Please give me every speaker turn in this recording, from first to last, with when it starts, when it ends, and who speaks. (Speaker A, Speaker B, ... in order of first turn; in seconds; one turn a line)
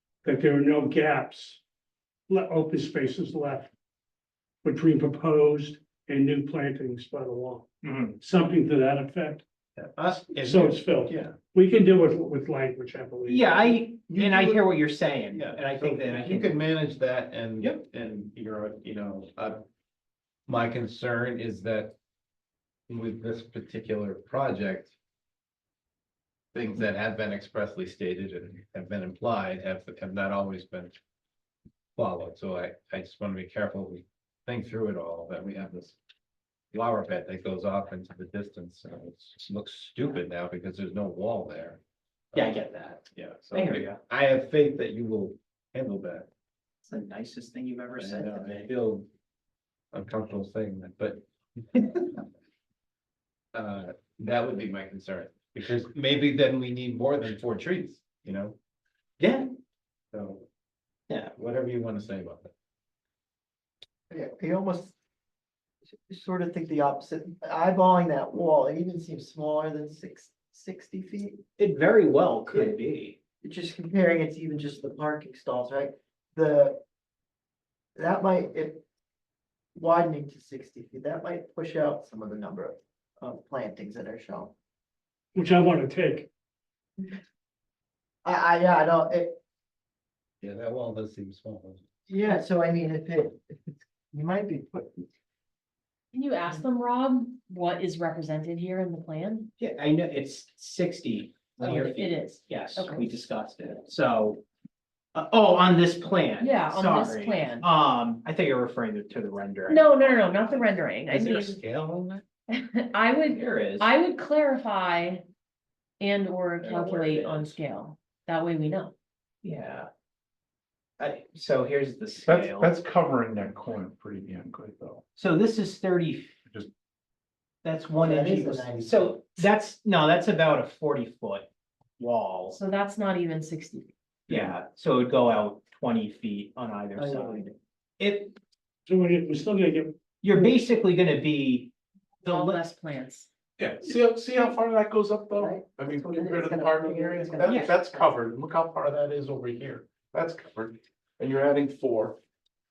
Speaker A: 0.2-1.6
Speaker A: 2.3-3.7
Speaker A: 4.6-7.7
Speaker B: 7.8-8.2
Speaker A: 8.2-9.4
Speaker C: 9.8-11.3
Speaker A: 10.4-13.8
Speaker B: 13.3-16.5
Speaker C: 14.1-14.6
Speaker C: 15.3-19.6
Speaker C: 20.5-21.9
Speaker C: 22.9-24.9
Speaker C: 26.5-30.9
Speaker C: 31.9-36.0
Speaker C: 36.7-41.8
Speaker B: 42.3-44.0
Speaker C: 43.1-46.3
Speaker B: 46.8-48.7
Speaker C: 48.0-49.1
Speaker C: 49.9-52.2
Speaker C: 53.5-58.5
Speaker B: 59.2-59.4
Speaker C: 60.1-60.4
Speaker C: 61.3-62.5
Speaker D: 64.1-64.9
Speaker D: 66.1-71.4
Speaker B: 71.6-73.2
Speaker D: 73.4-76.8
Speaker D: 78.0-78.8
Speaker D: 79.7-84.5
Speaker A: 85.3-86.3
Speaker D: 88.2-89.4
Speaker C: 90.4-91.8
Speaker D: 92.1-95.1
Speaker E: 96.1-99.5
Speaker B: 99.6-104.4
Speaker E: 101.6-103.2
Speaker B: 105.1-110.7
Speaker E: 106.4-107.7
Speaker E: 109.7-111.6
Speaker C: 111.1-112.2
Speaker E: 112.5-115.2
Speaker B: 113.3-113.9
Speaker E: 116.0-118.9
Speaker B: 116.6-117.6
Speaker B: 119.4-119.9
Speaker B: 121.0-122.7
Speaker F: 122.2-125.0
Speaker B: 125.2-126.3
Speaker B: 127.6-132.6
Speaker D: 128.0-129.1
Speaker E: 132.5-133.9
Speaker B: 134.3-137.4
Speaker D: 136.9-137.5
Speaker B: 138.0-138.4
Speaker A: 138.8-139.9
Speaker B: 140.2-142.6
Speaker E: 142.2-143.3
Speaker F: 143.6-152.2
Speaker D: 145.5-147.5
Speaker B: 147.4-147.8